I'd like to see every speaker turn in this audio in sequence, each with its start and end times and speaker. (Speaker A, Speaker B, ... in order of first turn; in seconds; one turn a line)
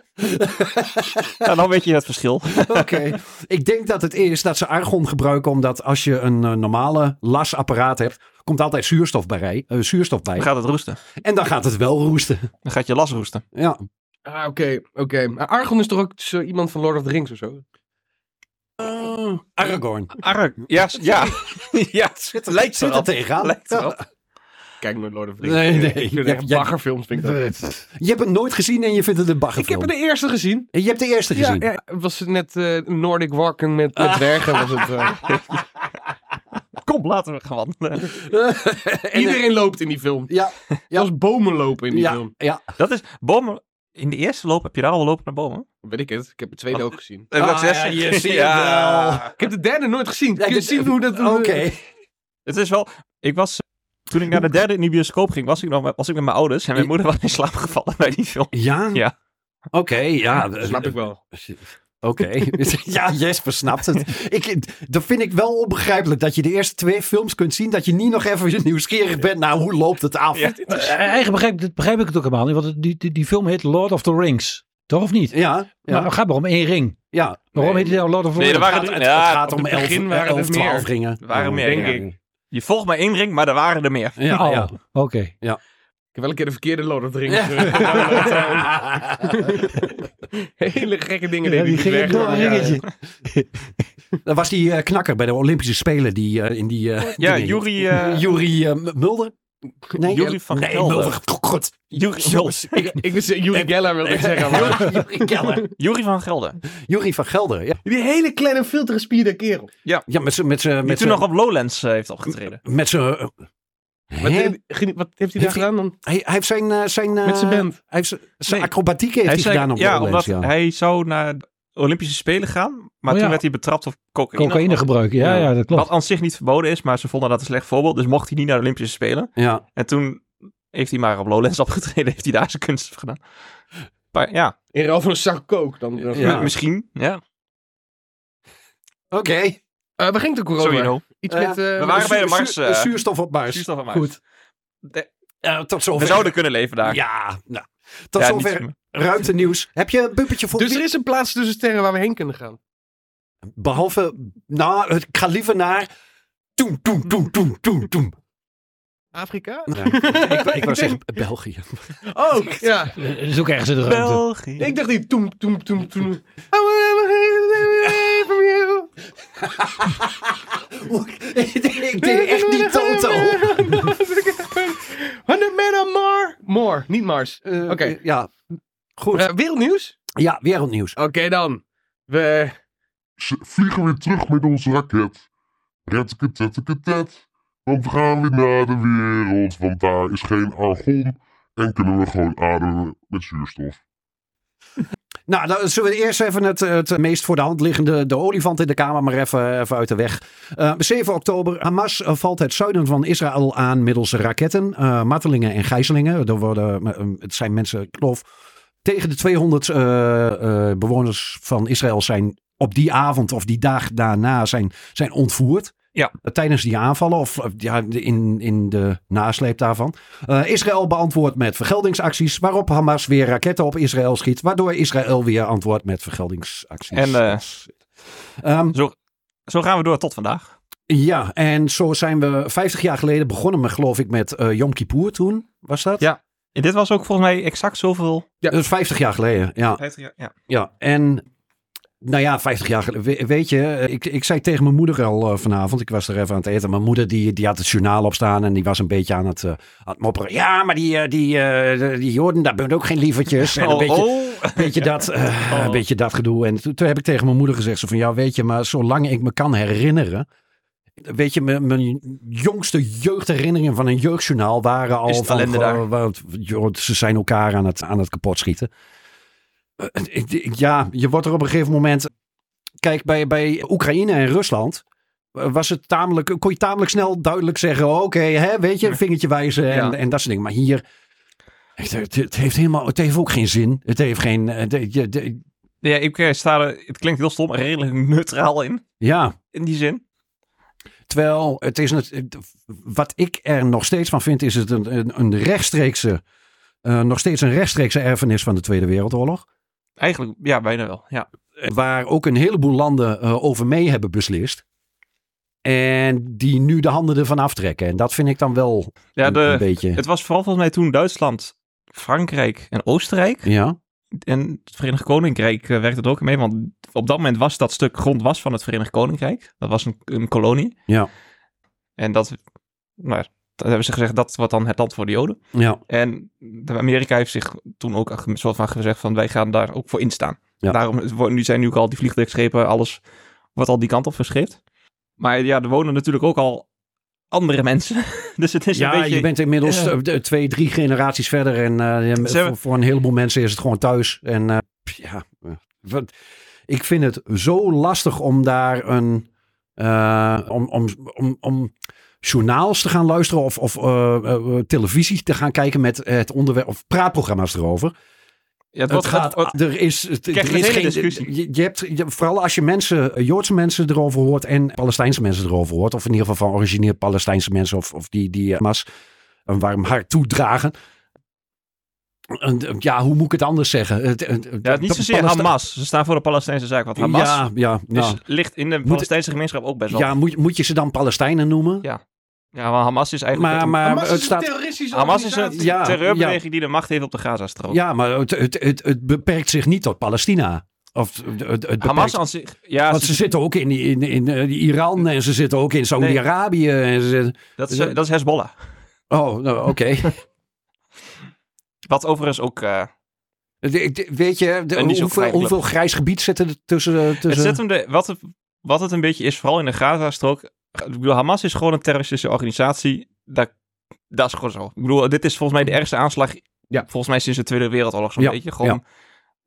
Speaker A: 0.2-1.5
Speaker B: 1.4-3.1
Speaker A: 2.5-10.5
Speaker B: 10.4-11.0
Speaker A: 11.2-12.5
Speaker B: 12.7-13.4
Speaker A: 13.5-13.8
Speaker C: 14.3-17.6
Speaker A: 18.8-20.2
Speaker B: 20.2-24.0
Speaker A: 21.0-21.4
Speaker A: 22.3-24.0
Speaker C: 24.8-27.4
Speaker A: 25.4-29.9
Speaker C: 29.6-30.7
Speaker A: 30.7-31.7
Speaker C: 31.3-35.2
Speaker A: 34.0-35.2
Speaker B: 36.8-38.2
Speaker A: 38.0-39.5
Speaker C: 39.1-40.3
Speaker A: 40.3-41.1
Speaker C: 40.9-42.3
Speaker A: 41.9-42.6
Speaker B: 42.8-45.6
Speaker C: 45.8-47.3
Speaker B: 46.7-49.4
Speaker A: 47.3-49.3
Speaker C: 49.4-51.6
Speaker A: 50.4-51.8
Speaker B: 52.5-59.1
Speaker A: 58.5-59.0
Speaker A: 59.7-70.8
Speaker C: 60.6-61.2
Speaker B: 70.3-70.6
Speaker D: 70.7-77.0
Speaker A: 75.3-76.1
Speaker A: 77.1-78.0
Speaker D: 77.5-78.7
Speaker B: 78.4-79.5
Speaker A: 78.6-82.1
Speaker C: 79.5-80.9
Speaker B: 81.2-84.2
Speaker C: 81.6-82.0
Speaker A: 84.2-84.7
Speaker D: 84.3-85.3
Speaker C: 86.2-92.8
Speaker A: 87.3-89.7
Speaker D: 91.4-93.5
Speaker A: 92.1-92.9
Speaker A: 94.2-99.3
Speaker B: 97.2-98.3
Speaker A: 99.9-103.0
Speaker B: 100.0-101.2
Speaker B: 101.9-102.9
Speaker C: 102.8-105.7
Speaker A: 103.5-105.7
Speaker B: 104.5-104.9
Speaker B: 105.8-106.6
Speaker A: 106.7-107.8
Speaker C: 107.9-109.7
Speaker A: 110.1-111.2
Speaker B: 110.8-112.6
Speaker A: 112.3-113.3
Speaker A: 114.1-114.6
Speaker C: 114.2-116.0
Speaker A: 115.4-120.5
Speaker C: 117.2-117.8
Speaker B: 119.3-124.9
Speaker D: 123.1-123.4
Speaker D: 124.3-125.9
Speaker A: 125.2-125.5
Speaker B: 125.7-133.2
Speaker A: 129.4-129.6
Speaker B: 134.1-134.6
Speaker C: 134.7-136.5
Speaker A: 136.1-136.5
Speaker B: 136.2-137.2
Speaker A: 139.1-139.6
Speaker C: 140.0-142.2
Speaker B: 140.6-141.0
Speaker A: 141.3-143.7
Speaker B: 141.8-142.9
Speaker B: 143.5-144.1
Speaker A: 145.4-150.8
Speaker B: 146.0-147.0
Speaker B: 148.2-148.7
Speaker C: 150.6-152.6
Speaker A: 153.6-155.9
Speaker A: 156.6-158.1
Speaker C: 159.1-161.0
Speaker A: 159.7-161.9
Speaker C: 162.1-162.9
Speaker D: 162.9-164.2
Speaker B: 163.9-164.7
Speaker C: 164.6-168.9
Speaker A: 169.4-173.9
Speaker C: 172.0-178.0
Speaker A: 177.4-178.3
Speaker A: 179.0-179.3
Speaker C: 179.1-180.0
Speaker A: 180.2-181.0
Speaker C: 181.0-182.6
Speaker E: 183.2-185.2
Speaker E: 185.9-193.8
Speaker A: 195.3-208.2
Speaker A: 208.8-227.8
Speaker B: 226.9-227.4
Speaker A: 228.4-228.8
Speaker B: 229.5-230.5
Speaker A: 230.9-236.1
Speaker B: 236.0-238.3
Speaker A: 238.5-239.8
Speaker B: 239.8-240.3
Speaker A: 240.5-241.2
Speaker A: 242.0-260.3
Speaker B: 253.4-255.8
Speaker A: 261.0-268.7
Speaker B: 265.1-265.8
Speaker A: 269.8-272.1
Speaker A: 272.8-274.8
Speaker A: 275.4-280.8
Speaker B: 279.7-279.9
Speaker A: 281.8-285.4
Speaker B: 285.8-288.8
Speaker A: 289.0-289.4
Speaker B: 289.5-290.0
Speaker A: 291.1-296.2
Speaker A: 296.8-299.4
Speaker B: 300.0-301.3
Speaker A: 301.6-304.6
Speaker A: 305.6-310.0
Speaker B: 309.2-313.5
Speaker A: 313.4-313.8
Speaker B: 314.2-320.8
Speaker B: 322.0-322.4
Speaker B: 323.0-325.4
Speaker B: 325.9-333.0
Speaker B: 333.6-334.6
Speaker B: 335.2-336.7
Speaker B: 337.3-339.3
Speaker A: 338.8-346.1
Speaker B: 342.2-342.6
Speaker A: 346.7-357.9
Speaker B: 358.8-359.5
Speaker A: 358.9-368.9
Speaker B: 360.3-361.3
Speaker A: 369.5-370.7
Speaker A: 372.3-375.5
Speaker B: 374.6-380.1
Speaker A: 377.0-378.2
Speaker A: 379.9-381.9
Speaker B: 382.6-383.8
Speaker A: 383.3-384.5
Speaker C: 383.8-385.8
Speaker B: 384.9-387.8
Speaker A: 385.5-386.4
Speaker A: 387.7-392.2
Speaker B: 391.8-393.3
Speaker A: 392.9-397.9
Speaker B: 397.6-398.6
Speaker A: 399.1-400.1
Speaker B: 401.9-402.9
Speaker A: 403.6-407.6
Speaker B: 404.8-405.6
Speaker B: 407.2-413.5
Speaker B: 414.1-418.8
Speaker A: 418.2-418.8